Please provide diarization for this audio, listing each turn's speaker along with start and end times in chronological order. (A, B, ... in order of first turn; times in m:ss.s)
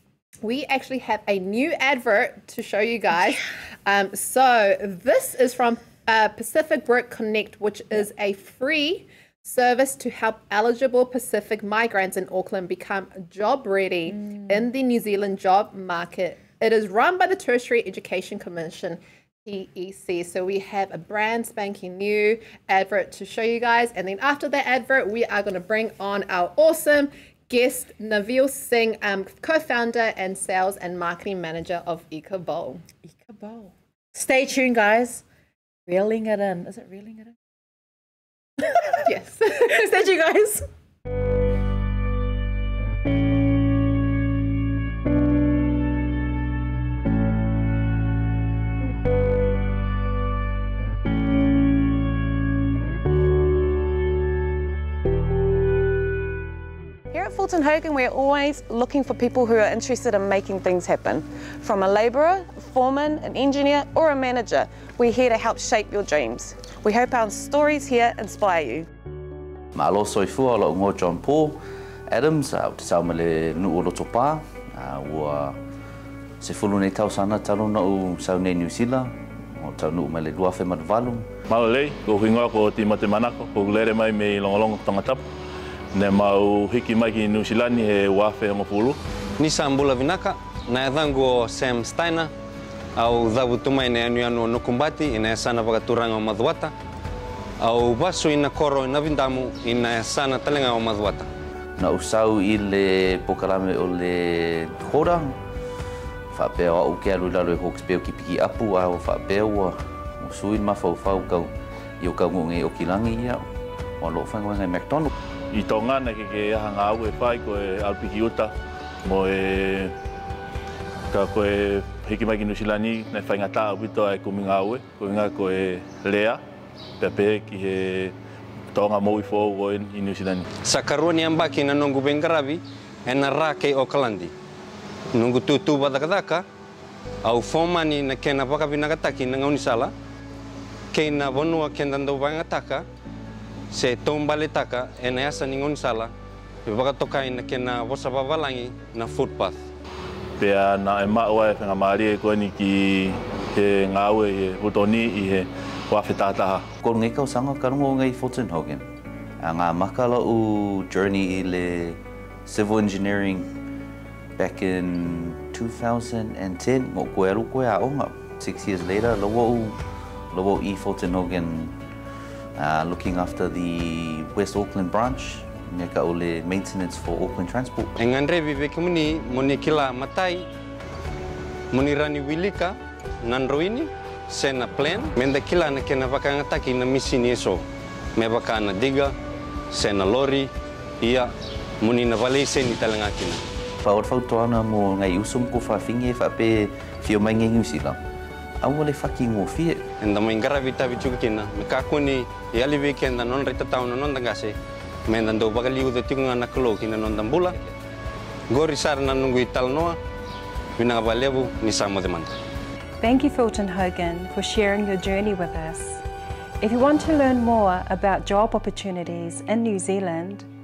0:00.4-0:32.8 A
0:33.1-0:35.2 B
0:35.9-0:37.3 B
0:38.6-0:40.6 B
0:39.0-0:40.0 A
0:57.1-1:08.9 C
1:09.7-1:11.6 D
1:12.1-1:15.6 D
1:16.4-1:21.3 D
1:21.5-1:25.2 E
1:25.9-1:29.0 E
1:29.4-1:32.3 F
1:33.0-1:36.7 F
1:37.6-1:41.3 F
1:41.8-1:45.4 D
1:46.3-1:53.4 D
1:54.0-1:55.1 D
1:55.5-1:58.5 E
1:59.0-1:59.9 E
2:01.1-2:06.4 E
2:07.0-2:08.1 E
2:08.7-2:10.5 E
2:10.6-2:14.3 F
2:15.1-2:16.4 F
2:17.2-2:19.9 F
2:20.9-2:22.8 F
2:23.7-2:26.1 F
2:26.6-2:29.6 F
2:30.4-2:36.7 E
2:36.8-2:38.8 D
2:39.4-2:43.5 D
2:44.4-2:49.8 D
2:50.3-2:51.8 D
2:52.6-2:57.9 D
2:58.0-3:00.4 F
3:01.7-3:07.6 F
3:08.2-3:09.1 F
3:09.7-3:10.5 F
3:11.0-3:13.4 F
3:13.8-3:18.0 D
3:18.6-3:19.8 D
3:20.0-3:24.5 F
3:25.1-3:27.6 F
3:28.5-3:30.0 F
3:30.8-3:32.3 F
3:33.0-3:36.0 G
3:36.6-3:40.5 G